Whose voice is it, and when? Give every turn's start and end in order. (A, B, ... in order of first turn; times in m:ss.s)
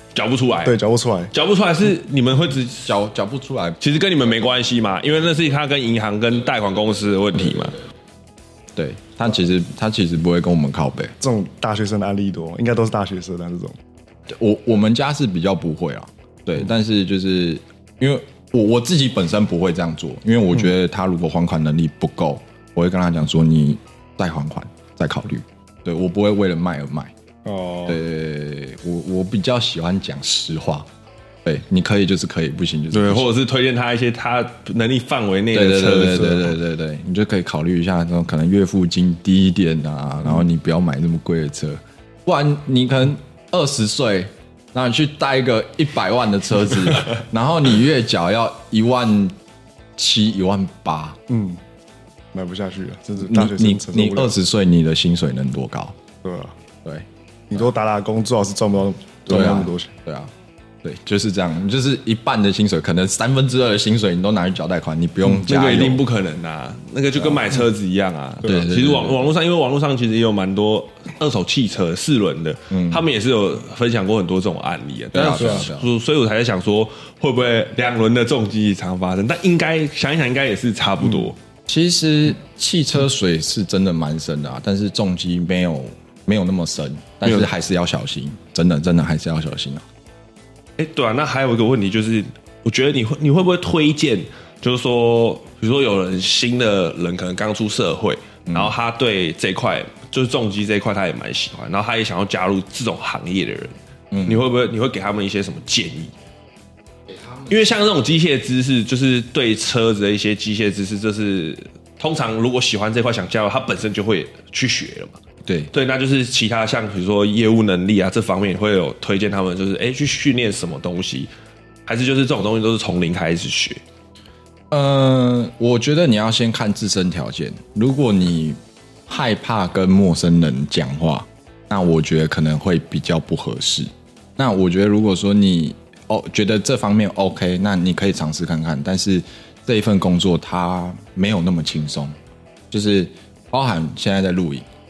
0:00.1-0:00.8 A
0:00.6-0:01.3 B
0:01.3-0:03.0 A
0:02.8-0:03.8 C
0:03.8-0:07.8 A
0:08.8-0:11.1 C
0:11.2-0:13.7 B
0:14.3-0:27.1 C
0:27.4-0:28.0 B
0:27.8-0:30.9 C
0:31.4-0:33.3 C
0:32.9-0:36.6 A
0:35.5-0:49.3 C
0:50.0-0:51.2 C
0:51.3-0:51.6 B
0:52.3-0:54.3 B
0:53.2-0:56.0 C
0:56.2-0:56.6 B
0:56.8-0:57.6 C
0:57.5-0:59.9 B
0:59.3-1:00.3 C
1:00.8-1:06.0 C
1:05.2-1:05.5 B
1:05.4-1:21.4 A
1:07.2-1:07.4 C
1:08.4-1:09.3 C
1:12.7-1:13.0 C
1:15.1-1:15.9 C
1:15.3-1:15.7 B
1:21.7-1:29.8 C
1:27.2-1:27.5 A
1:30.8-1:46.1 A
1:38.5-1:38.7 C
1:44.1-1:44.5 C
1:47.5-1:55.2 A
1:55.4-1:55.7 C
1:55.7-2:01.3 A
2:01.8-2:03.8 A
2:04.7-2:22.1 C
2:22.7-2:24.6 C